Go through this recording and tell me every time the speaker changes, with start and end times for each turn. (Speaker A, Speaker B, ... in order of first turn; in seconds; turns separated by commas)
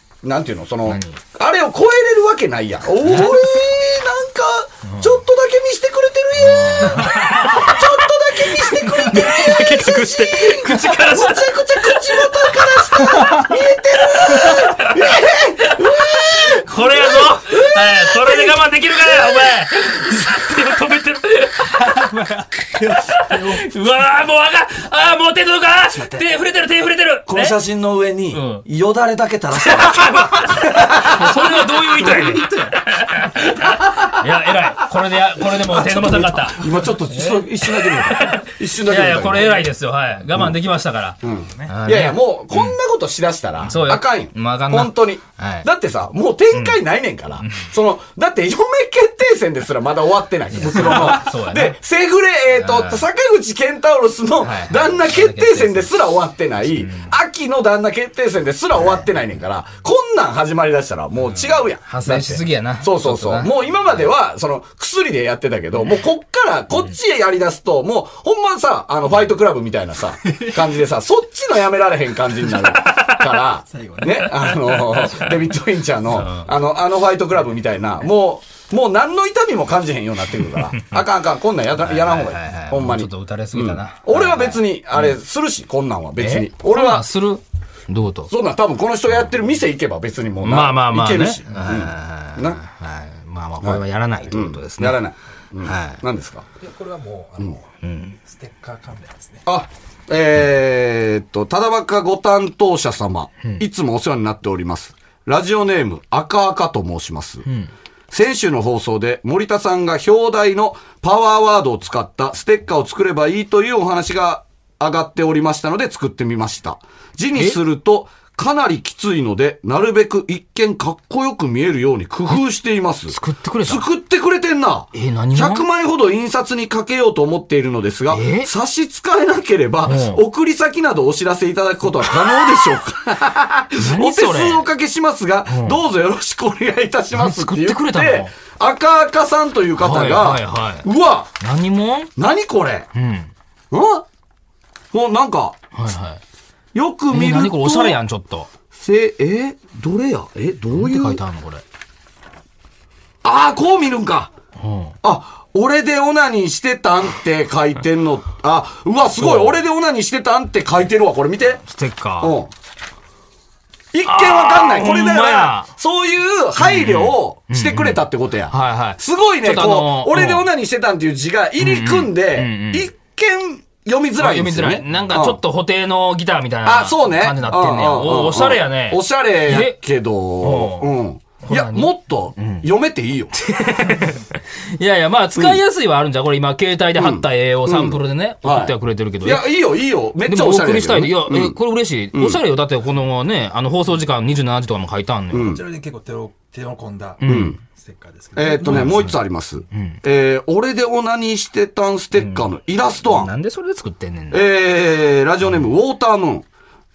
Speaker A: 0.2-18.6, Speaker B: 0.8-1.2, Speaker B: 3.0-3.4, Speaker B: 4.8-5.2, Speaker B: 6.4-7.9, Speaker B: 8.4-13.5, Speaker B: 14.2-27.6, Speaker A: 19.1-19.5, Speaker C: 22.9-23.5, Speaker A: 27.3-31.6, Speaker B: 28.3-28.6, Speaker B: 29.6-42.8, Speaker C: 32.2-32.7, Speaker A: 33.6-34.2, Speaker A: 35.5-39.7, Speaker A: 41.2-87.1, Speaker B: 43.6-45.7, Speaker B: 46.5-46.8, Speaker B: 47.4-47.7, Speaker B: 50.5-51.8, Speaker B: 52.5-53.0, Speaker B: 54.4-55.9, Speaker B: 56.7-57.1, Speaker B: 61.3-64.1, Speaker B: 72.8-73.2, Speaker C: 73.7-75.3, Speaker B: 76.1-76.5, Speaker B: 81.8-85.2, Speaker B: 86.2-88.3, Speaker A: 88.3-92.6, Speaker B: 90.4-95.0, Speaker A: 93.6-96.5, Speaker B: 95.6-96.0, Speaker C: 96.6-97.7, Speaker B: 97.8-98.2, Speaker C: 98.2-99.5, Speaker A: 99.4-107.5, Speaker B: 107.5-107.7, Speaker A: 108.1-141.3, Speaker B: 123.1-123.9, Speaker B: 124.9-125.7, Speaker B: 128.1-128.5, Speaker B: 129.8-130.2, Speaker B: 133.8-134.7, Speaker B: 135.5-135.8, Speaker B: 137.1-138.3, Speaker B: 139.8-140.9, Speaker B: 141.4-142.1, Speaker A: 142.2-142.9, Speaker B: 142.9-143.3, Speaker A: 143.7-144.0, Speaker A: 144.9-145.6, Speaker B: 145.7-146.2, Speaker A: 146.7-148.0, Speaker B: 147.1-148.5, Speaker A: 148.7-151.2, Speaker B: 150.7-151.6, Speaker A: 153.2-154.3, Speaker B: 154.6-154.9, Speaker A: 155.0-161.6, Speaker B: 159.2-159.6, Speaker B: 161.6-162.4, Speaker A: 162.2-162.5, Speaker A: 163.9-175.4, Speaker B: 164.1-165.7, Speaker B: 166.6-170.5, Speaker B: 171.6-172.9, Speaker B: 174.2-179.8, Speaker A: 176.6-183.4, Speaker B: 180.4-180.9, Speaker B: 181.4-182.7, Speaker B: 183.3-189.5, Speaker A: 186.9-191.6, Speaker B: 190.2-195.6, Speaker A: 192.1-192.4, Speaker A: 195.3-195.6, Speaker C: 195.3-198.9, Speaker B: 197.2-197.6, Speaker A: 197.2-197.6, Speaker A: 198.3-203.3, Speaker B: 198.6-199.2, Speaker B: 199.7-200.0, Speaker B: 202.1-202.5, Speaker B: 203.0-204.5, Speaker A: 204.3-206.4